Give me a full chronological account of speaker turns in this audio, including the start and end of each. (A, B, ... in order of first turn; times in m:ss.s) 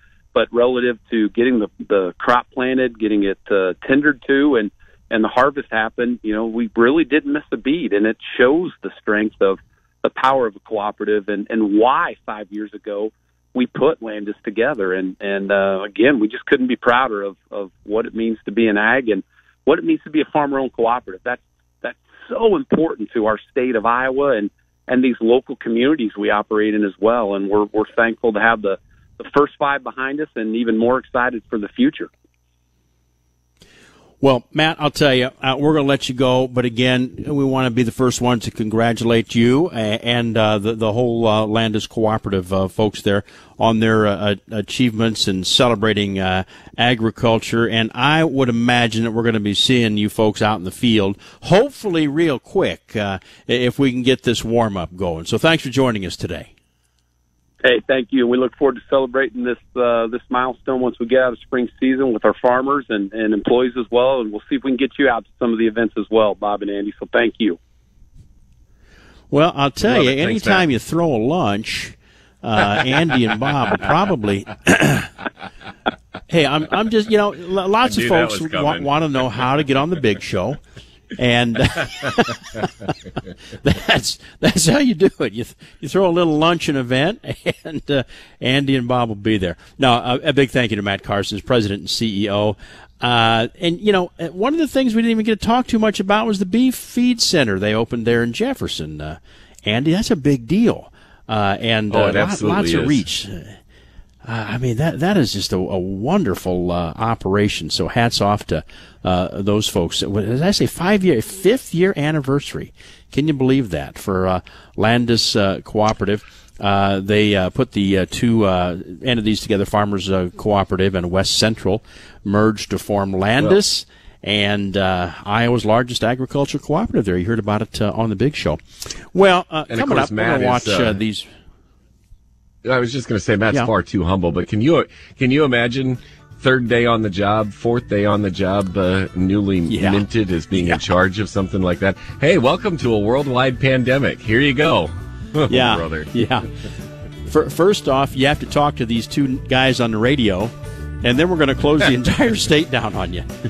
0:00.3-0:32.1 A
0:34.2-0:56.5 B
0:57.6-1:07.6 A
1:09.3-1:15.1 B
1:09.8-1:10.6 C
1:16.3-1:20.6 B
1:17.8-1:18.9 C
1:21.2-1:22.9 B
1:23.6-1:43.6 B
1:41.9-1:43.0 C
1:44.2-2:11.2 B
2:09.7-2:11.0 C
2:12.6-2:26.1 C
2:19.7-2:20.8 B
2:25.5-2:26.5 B
2:27.3-2:33.3 B